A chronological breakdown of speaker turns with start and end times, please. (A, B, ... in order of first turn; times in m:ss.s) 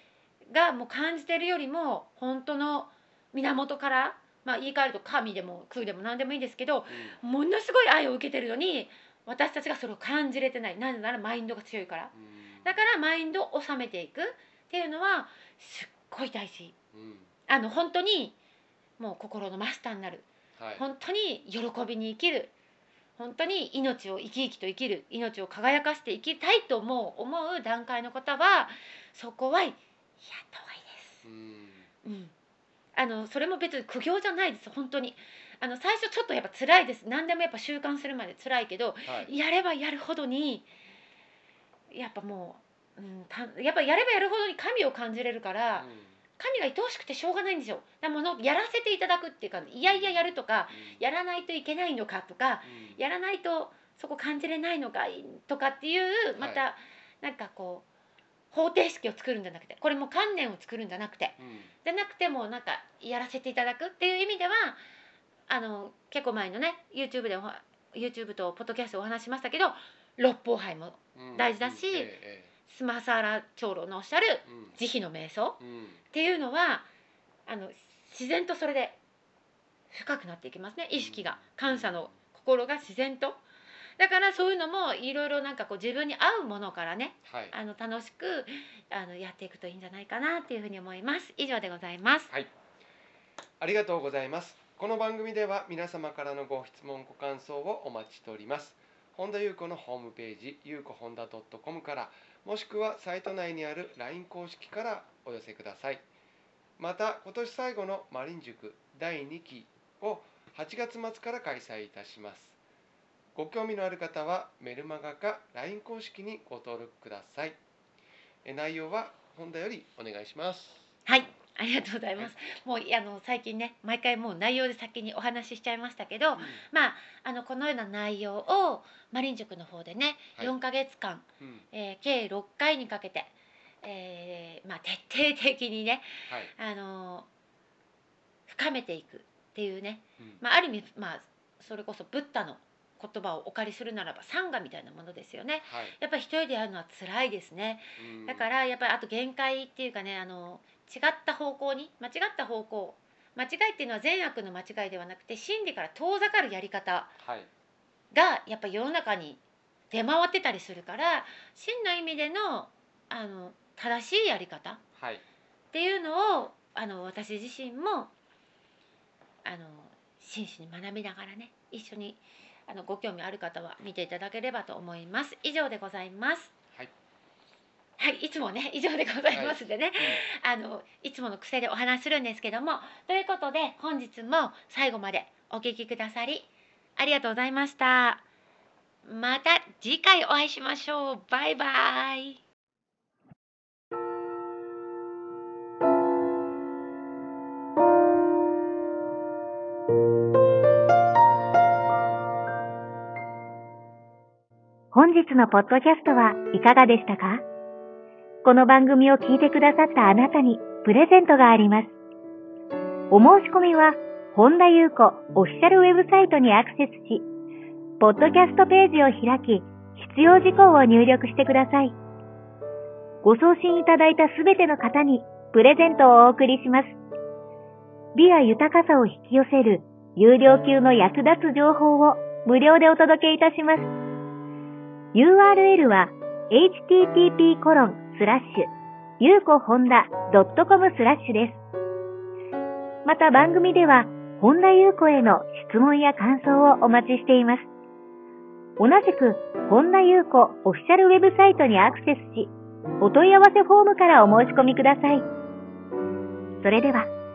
0:00.5-0:12.1 A
0:06.9-0:07.2 B
0:12.1-0:12.9 B
0:12.6-0:16.7 A
0:16.9-0:17.3 B
0:17.5-0:18.4 A
0:19.0-0:20.2 A
0:20.6-0:20.8 B
0:20.8-0:22.5 A
0:23.2-0:31.2 A
0:31.2-0:31.9 B
0:32.0-0:32.3 A
0:32.9-0:40.6 A
0:39.0-0:39.3 B
0:41.9-0:57.8 A
0:45.7-0:46.2 B
0:49.8-0:51.0 B
0:52.6-0:53.0 B
0:56.4-0:56.6 B
0:58.5-1:04.8 A
1:01.4-1:01.7 B
1:05.5-1:12.1 A
1:11.1-1:12.5 B
1:12.7-1:15.6 A
1:14.4-1:14.8 B
1:15.6-1:16.0 B
1:16.1-1:16.9 A
1:17.5-1:19.0 A
1:19.9-1:23.4 A
1:20.9-1:22.1 B
1:24.0-1:32.3 A
1:27.3-1:27.5 B
1:33.6-1:46.0 B
1:46.8-1:52.6 B
1:53.4-1:57.6 B
1:58.4-2:00.8 B
2:01.0-2:13.3 A
2:06.4-2:06.6 B
2:11.4-2:11.6 B
2:13.8-2:17.3 A
2:16.3-2:16.5 B
2:18.5-2:37.1 A
2:25.6-2:26.0 B
2:28.0-2:28.5 B
2:37.2-2:37.5 B
2:38.1-2:44.8 A
2:45.0-2:45.2 B
2:45.7-2:48.1 A
2:49.4-2:56.5 A
2:58.0-3:08.2 A
2:59.3-3:00.2 B
3:09.0-3:12.4 A
3:24.9-3:27.4 C
3:28.4-3:31.9 C
3:33.1-3:37.3 C
3:38.0-3:42.0 C
3:43.2-3:47.0 C
3:48.1-3:53.9 C
3:55.1-4:01.6 C
4:03.0-4:07.7 C
4:08.8-4:15.2 C
4:16.6-4:17.1 C